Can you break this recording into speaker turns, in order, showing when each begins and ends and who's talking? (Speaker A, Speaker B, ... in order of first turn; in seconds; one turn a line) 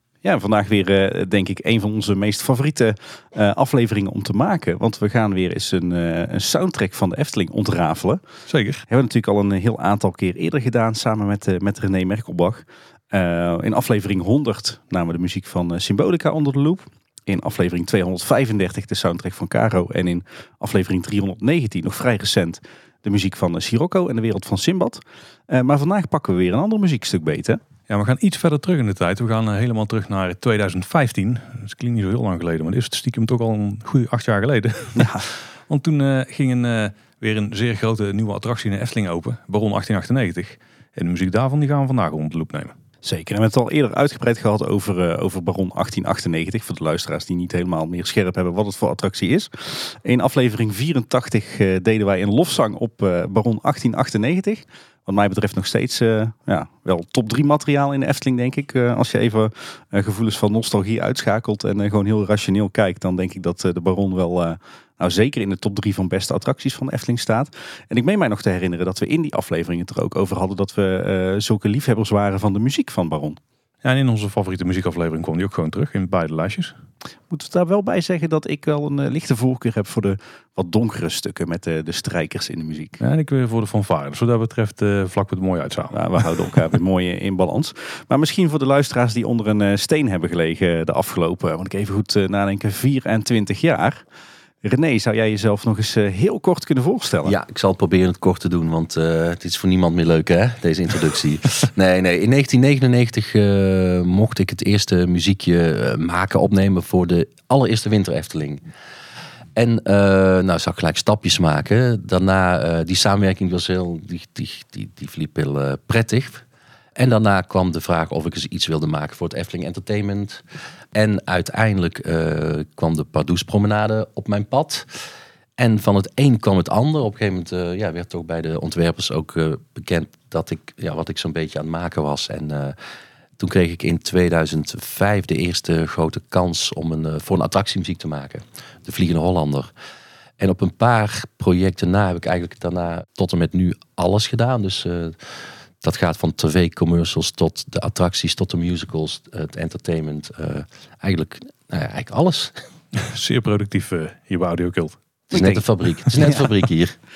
Speaker A: 0.2-8.2
Speaker B: 8.5-8.8
Speaker A: 8.9-27.6
Speaker B: 27.9-42.7
Speaker A: 35.0-35.2
Speaker A: 43.0-73.4
Speaker B: 73.8-76.7
Speaker A: 77.3-83.0
Speaker B: 83.0-86.1
Speaker A: 85.9-94.0
Speaker A: 94.6-97.3
Speaker C: 97.2-108.6
Speaker C: 109.5-116.4
Speaker C: 116.9-120.4
Speaker C: 120.9-124.9
Speaker C: 125.6-132.7
Speaker C: 133.4-139.7
Speaker C: 140.4-145.2
Speaker C: 145.8-152.5
Speaker B: 152.9-155.0
Speaker C: 155.3-156.9
Speaker A: 155.3-155.6
Speaker A: 156.2-156.5